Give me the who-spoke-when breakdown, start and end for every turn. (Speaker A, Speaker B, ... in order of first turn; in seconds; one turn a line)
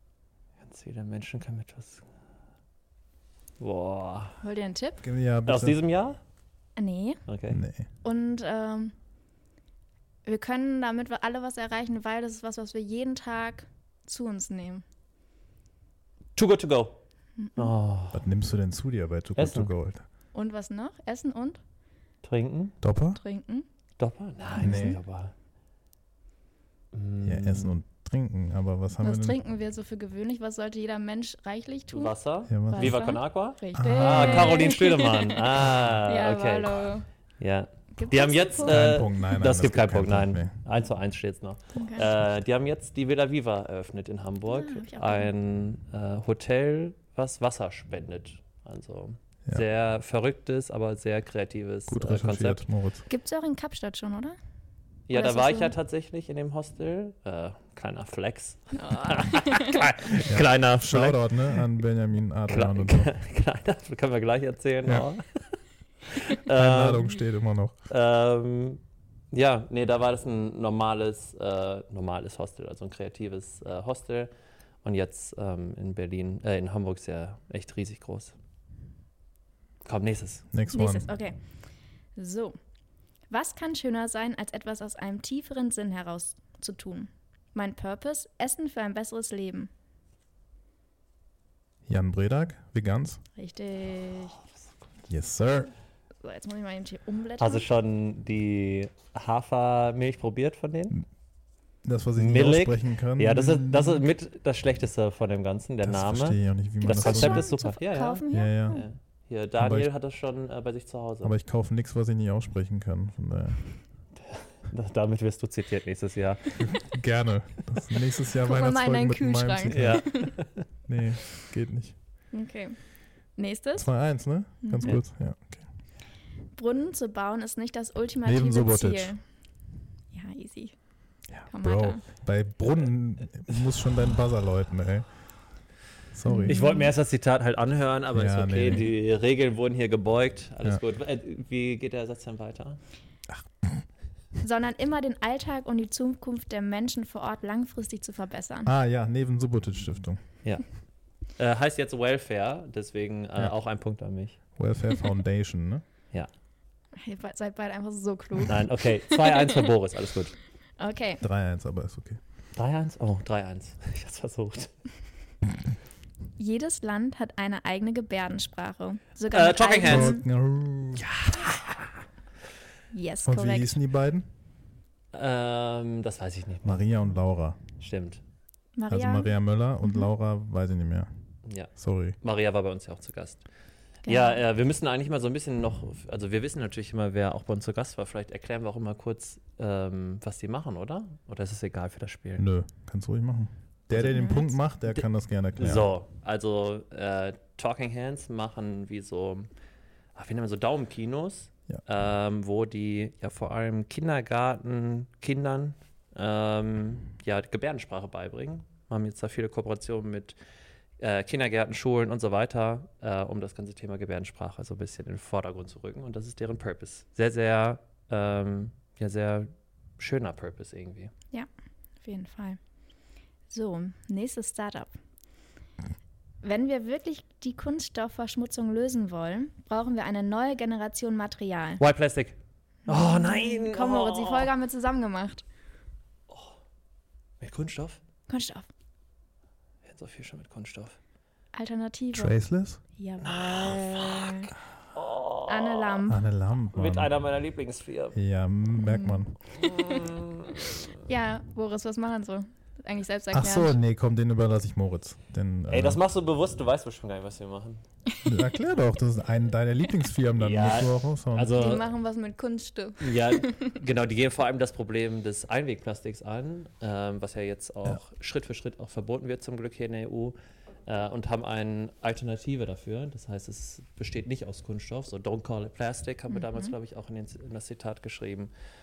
Speaker A: 0.6-2.0
Speaker A: 3.6-4.4
Speaker B: 4.4-5.0
Speaker C: 5.0-5.8
Speaker A: 5.5-6.2
Speaker B: 6.8-7.2
Speaker A: 7.3-7.6
Speaker C: 7.5-7.9
Speaker B: 8.0-8.9
Speaker B: 10.2-14.8
Speaker A: 16.4-17.0
Speaker B: 17.4-17.7
Speaker A: 17.6-18.2
Speaker C: 18.1-20.0
Speaker A: 19.4-19.7
Speaker B: 20.3-21.6
Speaker A: 22.2-22.8
Speaker C: 22.8-23.2
Speaker B: 23.1-23.6
Speaker A: 24.0-25.3
Speaker B: 24.6-25.0
Speaker C: 24.6-25.0
Speaker A: 26.9-27.8
Speaker C: 27.2-29.4
Speaker B: 29.0-32.1
Speaker A: 31.9-36.9
Speaker C: 32.5-33.0
Speaker B: 32.7-37.0
Speaker C: 33.7-34.7
Speaker A: 37.4-52.6
Speaker B: 37.9-38.9
Speaker C: 38.6-40.5
Speaker B: 41.7-42.1
Speaker B: 44.5-45.3
Speaker C: 51.9-53.0
Speaker B: 53.1-54.4
Speaker A: 55.1-61.7
Speaker B: 55.1-55.7
Speaker B: 58.7-59.9
Speaker C: 60.2-63.1
Speaker A: 62.5-65.5
Speaker A: 66.0-67.1
Speaker C: 66.5-67.8
Speaker A: 67.9-68.8
Speaker A: 69.3-74.3
Speaker A: 74.8-78.3
Speaker A: 79.8-80.4
Speaker C: 80.5-81.1
Speaker B: 80.7-81.4
Speaker B: 82.2-82.5
Speaker B: 83.3-89.7
Speaker C: 91.9-93.2
Speaker B: 93.4-94.4
Speaker C: 95.1-95.7
Speaker B: 96.2-97.6
Speaker A: 97.4-101.0
Speaker C: 101.8-104.0
Speaker A: 102.2-111.3
Speaker C: 105.8-107.5
Speaker B: 106.9-108.8
Speaker C: 108.3-108.8
Speaker C: 109.6-109.9
Speaker C: 111.2-113.7
Speaker A: 114.3-116.6
Speaker C: 116.6-120.0
Speaker B: 118.4-120.4
Speaker A: 119.7-120.6
Speaker C: 120.9-121.9
Speaker B: 122.3-122.8
Speaker B: 123.3-123.9
Speaker C: 123.8-125.6
Speaker B: 124.6-124.9
Speaker B: 126.5-129.2
Speaker C: 128.2-129.1
Speaker B: 130.1-130.7
Speaker C: 131.3-135.1
Speaker B: 131.5-132.0
Speaker C: 136.1-136.6
Speaker B: 136.2-136.9
Speaker A: 136.4-142.8
Speaker C: 138.1-138.9
Speaker C: 143.3-143.8
Speaker B: 144.4-148.7
Speaker C: 148.6-150.2
Speaker A: 151.3-154.4
Speaker C: 154.6-155.8
Speaker B: 156.9-159.6
Speaker A: 158.5-160.3
Speaker B: 160.8-161.2
Speaker C: 161.2-162.2
Speaker A: 162.6-164.7
Speaker B: 166.4-170.2
Speaker A: 169.3-170.2
Speaker C: 169.8-171.2
Speaker A: 171.0-171.9
Speaker B: 172.9-173.8
Speaker C: 173.2-174.3
Speaker A: 175.1-176.8
Speaker C: 176.6-177.6
Speaker A: 177.8-178.2
Speaker B: 178.8-180.1
Speaker C: 178.9-181.1
Speaker C: 181.8-182.2
Speaker A: 182.2-183.4
Speaker B: 184.0-184.4
Speaker A: 184.1-192.4
Speaker C: 192.4-195.9
Speaker A: 193.9-194.2
Speaker B: 194.1-194.5
Speaker A: 195.6-199.5
Speaker A: 200.1-210.3
Speaker A: 211.0-221.1
Speaker B: 222.0-222.6
Speaker B: 223.5-224.9
Speaker B: 226.4-231.8
Speaker A: 231.8-232.3
Speaker A: 232.9-234.5
Speaker B: 232.9-235.4
Speaker A: 236.3-236.6
Speaker A: 237.4-238.0
Speaker B: 238.3-238.7
Speaker A: 239.8-241.0
Speaker B: 241.5-242.3
Speaker C: 242.1-242.8
Speaker B: 243.0-244.5
Speaker A: 243.2-246.1
Speaker B: 245.5-246.2
Speaker C: 246.1-247.1
Speaker A: 246.7-248.2
Speaker C: 248.1-249.4
Speaker B: 248.8-249.2
Speaker A: 249.5-250.8
Speaker B: 251.1-253.7
Speaker C: 253.3-256.0
Speaker A: 255.7-257.8
Speaker C: 258.2-261.6
Speaker A: 260.4-261.8
Speaker B: 261.5-263.7
Speaker A: 263.0-270.3
Speaker A: 270.9-278.5
Speaker B: 276.3-276.7